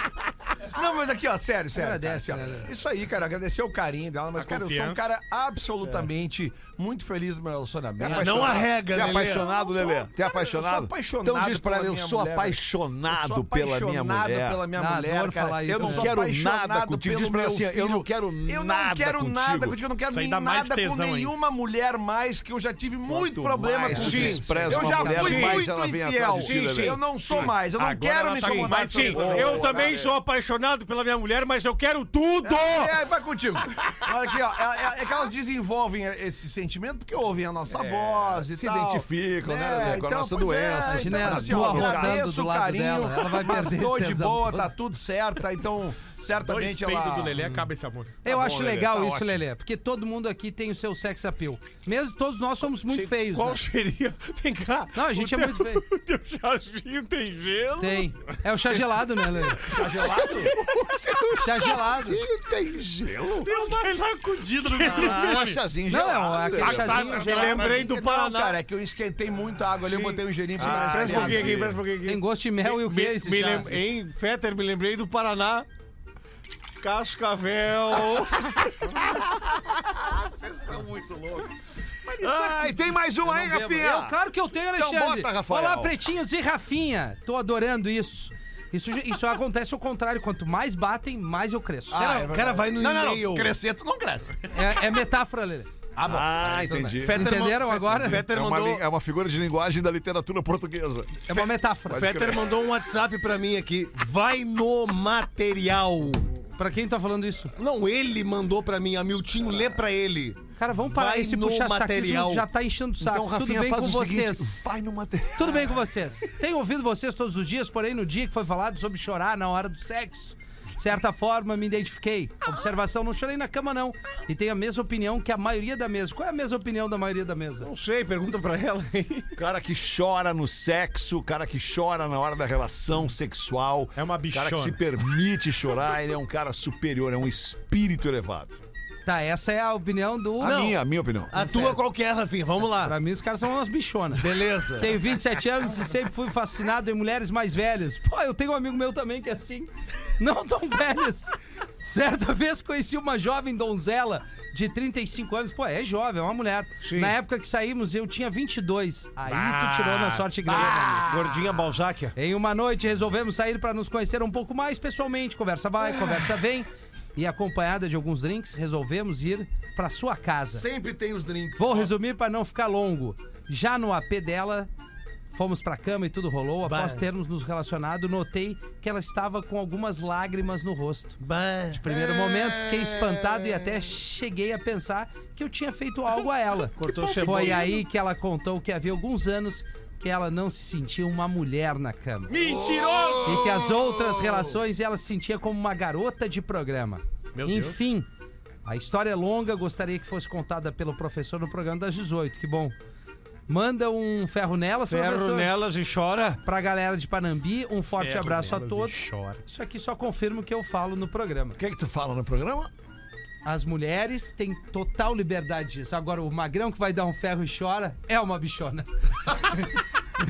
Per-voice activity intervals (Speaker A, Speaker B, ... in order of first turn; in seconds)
Speaker A: 0.7-30.1, 32.4-47.4, 59.7-60.5, 67.6-71.7, 91.9-94.5, 96.0-97.0, 160.5-161.5, 170.5-171.9
Speaker B: 1.8-2.7, 14.8-16.1, 23.8-25.3, 40.8-44.7, 47.4-47.7, 48.2-53.6, 54.9-55.8, 57.8-59.6, 61.4-62.2, 65.9-67.6, 72.0-73.8, 83.2-92.1, 94.5-95.7, 97.0-98.3, 101.3-102.3, 106.6-107.5, 110.6-114.5, 115.4-127.7, 139.1-140.8, 141.3-141.8, 142.7-151.3, 151.8-161.1, 162.2-170.7, 171.6-174.7, 175.3-181.2, 181.7-192.3, 193.2-198.1, 198.7-202.8, 203.5-205.5, 206.4-211.6, 213.4-219.7
Speaker C: 4.3-5.1, 20.1-21.3, 27.3-29.9, 46.4-48.2, 63.5-65.6, 66.6-67.8, 133.9-134.8, 159.3-160.4, 192.3-193.6, 197.3-197.8, 208.0-209.4
Speaker D: 8.0-14.6, 15.7-19.8, 23.1-27.0, 29.2-30.0, 37.7-42.3, 48.2-49.4, 59.7-63.5, 64.8-67.9, 70.6-71.8, 78.5-81.5, 82.2-84.2, 84.8-86.0, 96.0-97.4, 97.9-101.4, 101.9-102.5, 113.0-115.7, 129.4-138.6, 140.4-141.4, 192.4-194.6, 211.6-212.7
Speaker E: 8.0-9.4, 23.9-25.8, 26.3-27.0, 28.4-32.9, 52.9-58.1, 60.5-61.3, 63.4-65.5, 67.1-68.6, 69.8-75.7, 76.8-78.5, 82.1-82.7, 91.9-93.5, 96.9-98.8, 101.9-106.3, 107.6-110.4, 110.9-112.5, 127.6-129.4, 140.4-140.8, 141.3-143.0, 144.2-145.0, 156.8-157.2, 160.5-162.2, 176.7-177.1, 181.2-181.9, 186.8-187.8, 204.9-206.4